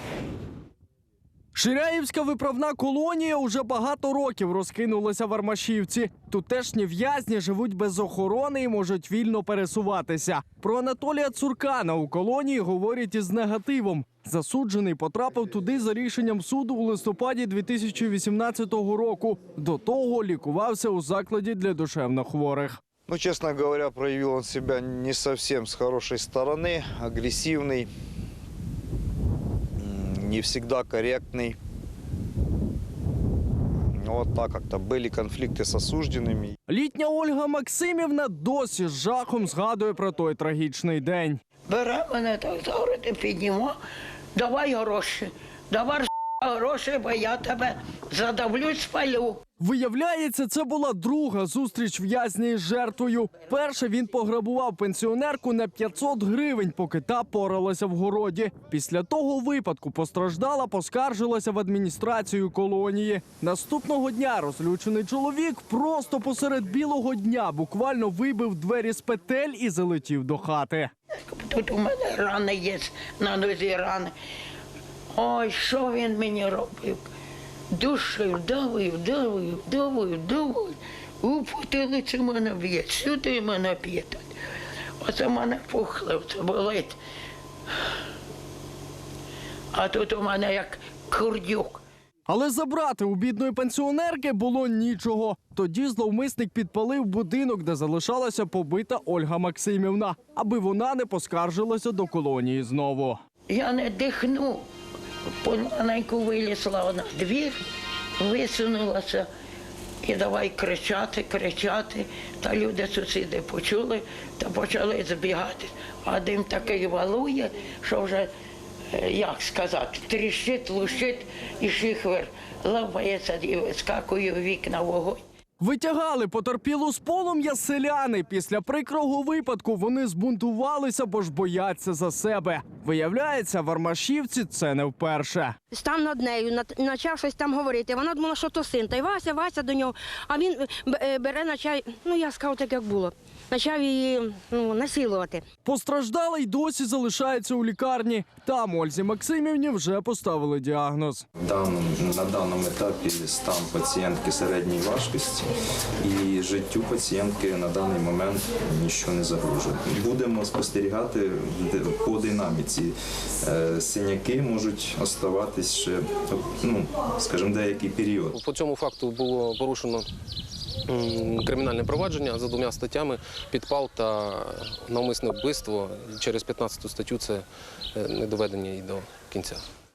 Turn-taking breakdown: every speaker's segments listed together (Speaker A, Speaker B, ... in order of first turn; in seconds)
Speaker A: 1.5-22.8, 36.7-41.4, 49.6-70.9, 92.3-103.2, 125.6-135.6, 145.6-151.2
Speaker B: 23.1-27.9, 29.8-31.6, 33.9-36.5
Speaker C: 41.7-43.8, 44.3-49.4, 71.3-74.1, 75.1-77.0, 77.7-84.3, 85.0-87.0, 89.7-91.8, 103.5-104.6, 105.4-107.6, 108.2-109.3, 110.0-118.3, 118.9-125.2
Speaker D: 135.7-145.4
Speaker E: 151.4-168.4
Speaker F: 168.3-170.1, 170.9-179.6